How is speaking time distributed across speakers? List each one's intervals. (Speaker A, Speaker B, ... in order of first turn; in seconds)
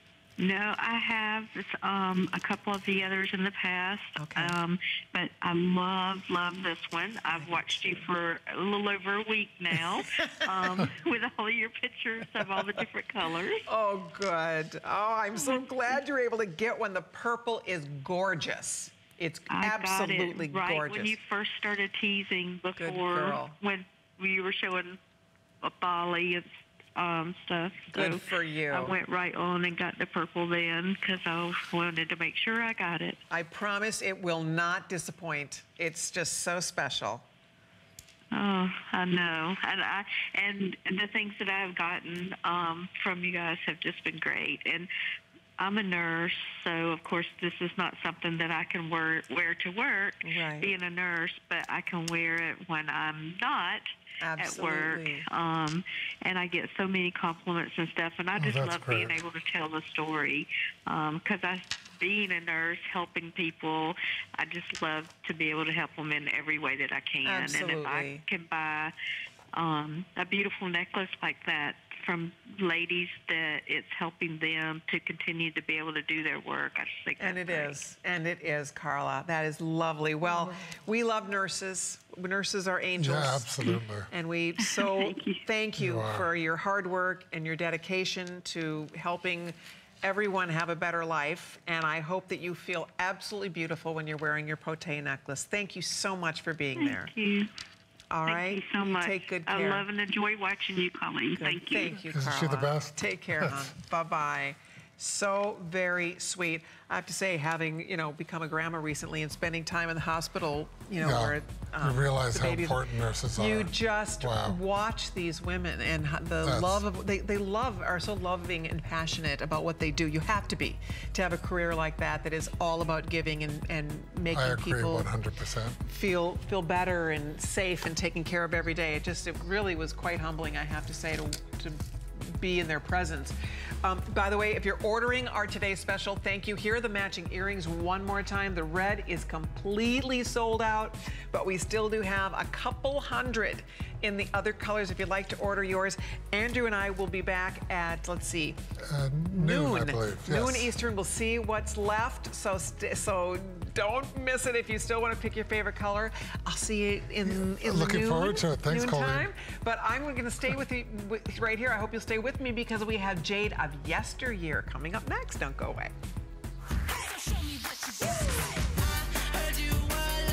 Speaker A: 0.4-13.6, 19.5-25.0, 25.6-33.2, 38.3-44.9, 45.6-53.9, 54.4-68.9, 69.5-77.8, 84.6-85.4, 96.8-97.5, 98.2-102.0
Speaker B: 4.2-4.5, 7.4-7.9, 10.3-10.7, 13.7-21.1, 22.8-23.6, 27.9-28.9, 33.3-37.2, 50.2-50.7, 54.2-55.2, 67.2-68.2, 77.2-83.5, 84.1-97.1, 98.1-99.8, 101.4-112.8, 113.3-125.1, 125.9-148.6, 149.3-165.9
Speaker C: 58.4-59.2, 83.0-84.1, 85.8-86.3, 102.1-103.5, 111.0-114.6, 116.4-116.8, 124.3-125.8, 148.8-150.7, 157.2-159.3